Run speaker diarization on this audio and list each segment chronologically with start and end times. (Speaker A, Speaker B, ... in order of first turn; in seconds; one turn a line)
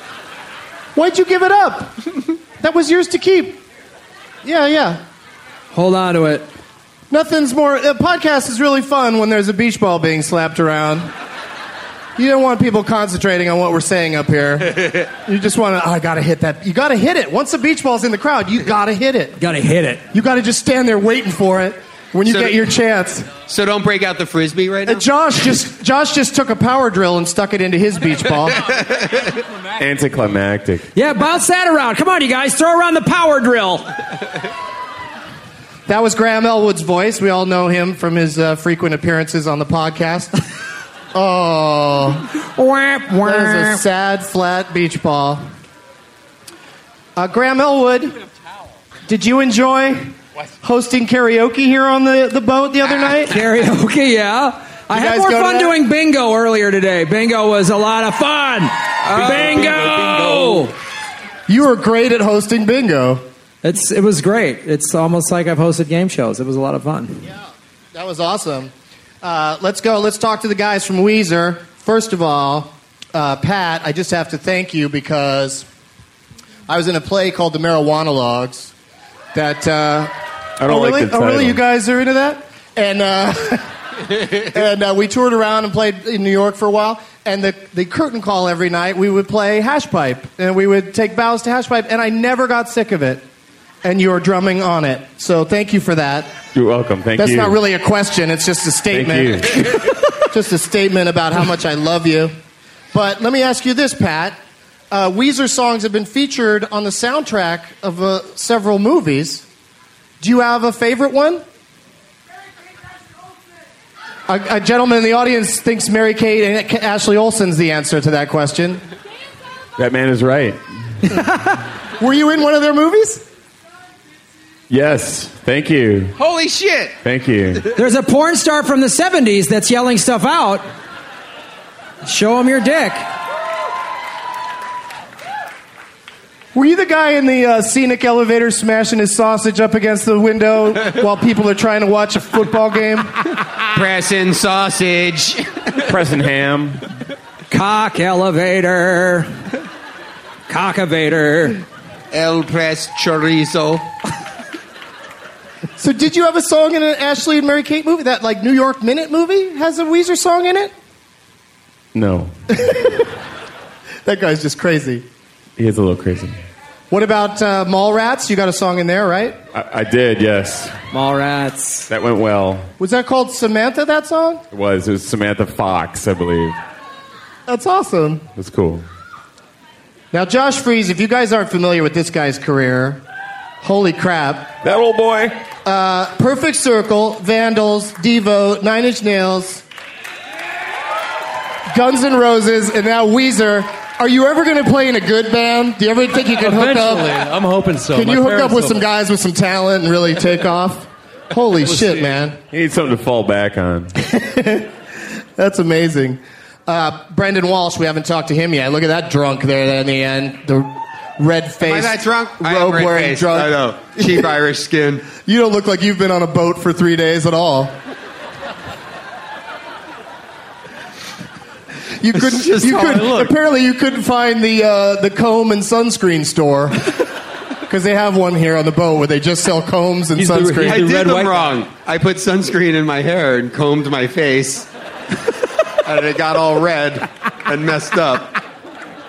Speaker A: 0.9-3.6
Speaker A: 4.4-5.0
Speaker B: 5.7-6.5
Speaker A: 7.1-11.1
Speaker A: 12.2-19.4
Speaker B: 19.4-20.0
Speaker A: 20.1-23.4
Speaker C: 22.3-22.6
Speaker C: 23.4-25.1
Speaker A: 24.9-28.7
Speaker D: 29.8-30.9
Speaker B: 30.9-33.9
Speaker A: 35.9-40.4
Speaker A: 41.1-42.3
Speaker B: 42.5-43.8
Speaker A: 43.1-45.5
Speaker A: 47.2-48.2
Speaker A: 49.1-53.4
Speaker B: 53.3-60.7
Speaker A: 54.9-55.8
Speaker E: 59.0-60.7
Speaker A: 61.5-63.2
Speaker B: 63.6-67.2
Speaker A: 67.9-75.7
Speaker A: 76.7-78.7
Speaker A: 79.3-83.8
Speaker D: 80.6-81.6
Speaker A: 84.3-93.2
Speaker A: 93.8-96.5
Speaker D: 96.5-97.6
Speaker A: 97.2-102.3
Speaker D: 98.9-99.7
Speaker A: 102.9-104.4
Speaker A: 104.9-109.5
Speaker A: 110.2-111.5
Speaker A: 114.3-118.8
Speaker D: 119.8-120.6
Speaker A: 122.0-123.2
Speaker D: 124.7-126.2
Speaker C: 126.2-127.0
Speaker D: 127.0-127.7
Speaker B: 127.8-130.7
Speaker B: 132.0-133.1
Speaker A: 136.5-143.2
Speaker C: 143.7-145.7
Speaker D: 145.8-146.8
Speaker B: 147.5-149.3
Speaker B: 150.5-151.6
Speaker C: 152.1-153.9
Speaker A: 155.8-160.7
Speaker D: 161.9-162.3
Speaker A: 162.5-163.1
Speaker A: 164.1-165.1
Speaker D: 165.6-166.4
Speaker A: 166.9-169.4
Speaker D: 169.5-170.8
Speaker B: 170.9-171.9
Speaker D: 171.9-172.7
Speaker A: 172.8-174.4
Speaker D: 174.5-176.6
Speaker A: 177.5-178.3
Speaker D: 178.4-178.8
Speaker A: 180.1-183.0
Speaker A: 183.6-184.6
Speaker D: 184.6-185.4
Speaker A: 185.6-189.6
Speaker A: 191.7-197.2
Speaker E: 196.4-198.8
Speaker A: 197.9-202.4
Speaker E: 201.6-202.2
Speaker D: 202.5-203.9
Speaker A: 204.0-204.7
Speaker A: 205.4-214.3
Speaker C: 211.6-215.1
Speaker A: 215.1-217.8
Speaker A: 222.0-227.0
Speaker C: 222.2-223.3
Speaker A: 227.7-230.9
Speaker E: 230.2-231.6
Speaker C: 230.6-234.7
Speaker C: 235.8-238.4